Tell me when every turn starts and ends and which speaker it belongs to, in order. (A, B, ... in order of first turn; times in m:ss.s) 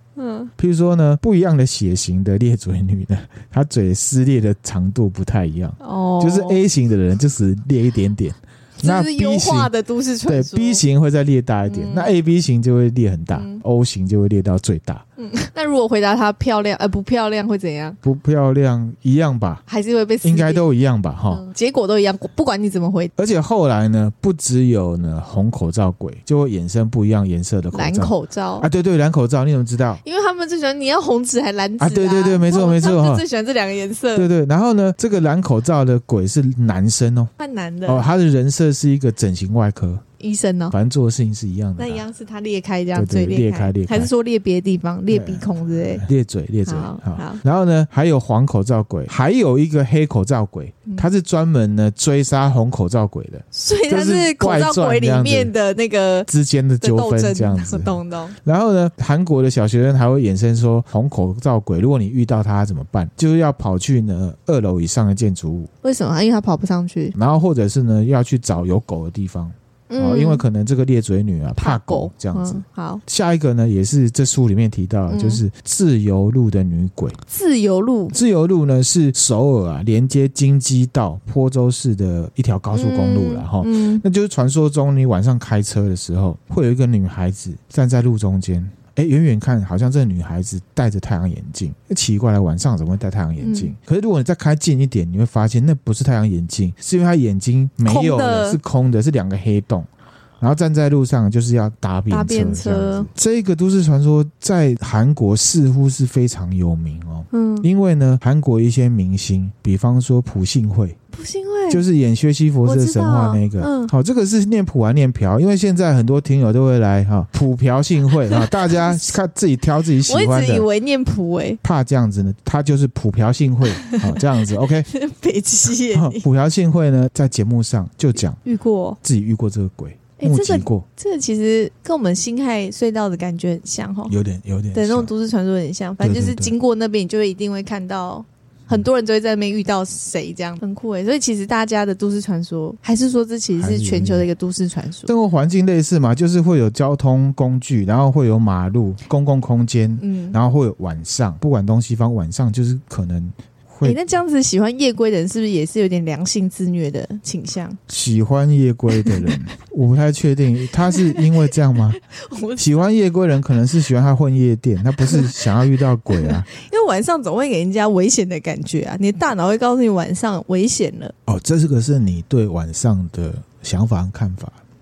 0:00.2-0:00.5 A
0:00.6-0:09.7 B
0:05.8-0:06.6 A
0:08.8-0:10.8 A
0:10.3-0:15.0 B
0:11.7-0:12.1 A
0:13.4-0:13.6 A
0:15.2-0:18.0 A
0:18.0-0:19.6 B
0:19.7-0:20.6 A
0:20.2-0:21.4 B
0:21.3-0:23.1 A
0:23.2-0:30.0 B
0:27.7-0:28.7 A
0:30.0-0:34.3 A
0:31.8-0:33.2 B
0:34.1-0:37.3 B
0:37.4-0:38.1 A
0:37.8-0:40.0 B
0:40.2-0:40.8 A
0:40.7-0:42.0 B
0:41.8-0:46.0 A
0:42.9-0:44.1 B
0:45.1-0:55.5 B
0:46.6-0:47.4 A
0:53.5-0:56.3 A
0:56.3-1:05.7 B
0:56.8-0:58.4 A
1:05.8-1:07.2 A
1:07.2-1:17.2 B
1:09.9-1:10.4 A
1:11.6-1:13.0 A
1:15.1-1:15.4 A
1:17.3-1:18.2 A
1:18.1-1:39.9 B
1:22.7-1:24.0 A
1:33.4-1:33.7 A
1:37.8-1:38.6 A
1:40.4-1:51.0 B
1:42.1-1:43.1 A
1:47.3-1:47.7 A
1:51.1-1:51.8 A
1:51.7-2:00.7 B
1:52.6-1:53.9 A
1:58.3-1:59.2 A
2:00.0-2:01.6 A
2:01.6-2:04.9 B
2:03.8-2:04.2 A
2:04.9-2:06.2 A
2:05.9-2:08.4 B
2:08.4-2:09.0 A
2:09.0-2:10.8 B
2:10.2-2:14.2 A
2:14.1-2:15.1 B
2:14.7-2:25.1 A
2:16.0-2:16.5 B
2:23.6-2:24.3 B
2:25.1-2:34.0 B
2:30.0-2:30.4 A
2:33.8-2:37.8 A
2:37.9-2:42.0 B
2:38.9-2:39.4 A
2:40.9-2:42.9 A
2:42.6-2:46.5 B
2:45.0-2:51.1 A
2:51.3-2:54.6 B